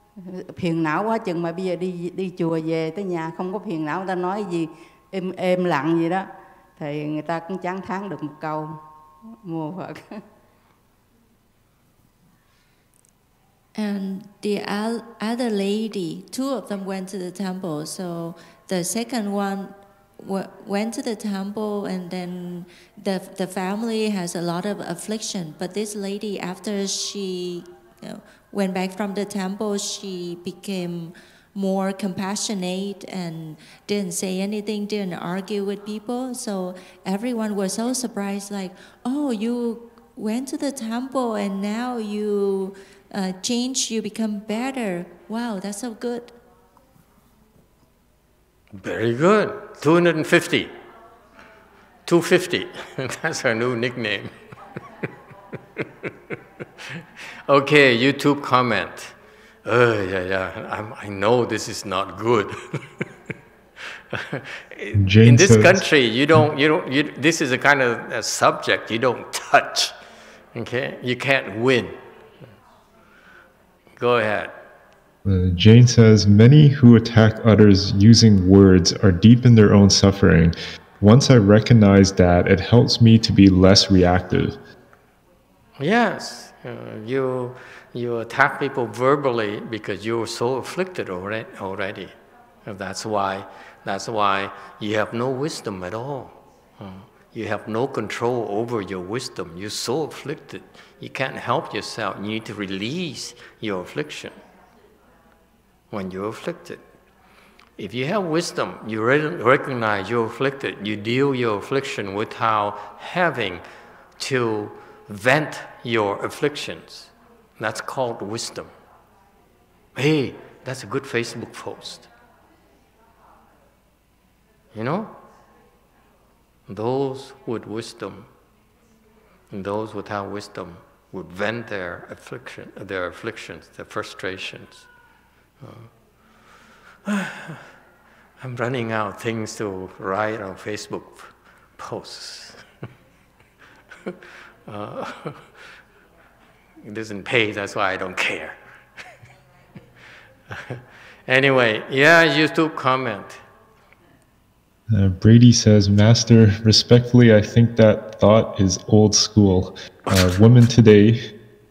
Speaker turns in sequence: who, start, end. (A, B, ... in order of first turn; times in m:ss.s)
0:00.2-0:08.8 A
0:09.4-0:10.2 A
0:13.7-0:46.3 B
0:48.8-0:50.7 C
0:52.1-0:54.3 C
0:55.8-0:56.1 C
0:57.5-1:02.8 C
1:04.1-1:09.9 C
1:05.0-1:05.8 D
1:10.5-1:12.0 C
1:14.0-1:14.5 C
1:15.2-1:24.6 D
1:25.8-1:32.1 C
1:32.7-1:44.4 C
1:45.9-1:46.8 C
1:47.8-1:53.6 C
1:54.2-1:58.7 C
2:00.0-2:02.1 C
2:04.7-2:05.2 C
2:06.7-2:08.3 C
2:09.5-2:14.9 C
2:15.6-2:15.9 C
2:17.0-2:17.6 C
2:18.4-2:22.6 C
2:24.7-2:25.5 C
2:26.8-2:28.6 C
2:30.5-2:33.4 C
2:34.9-2:41.2 D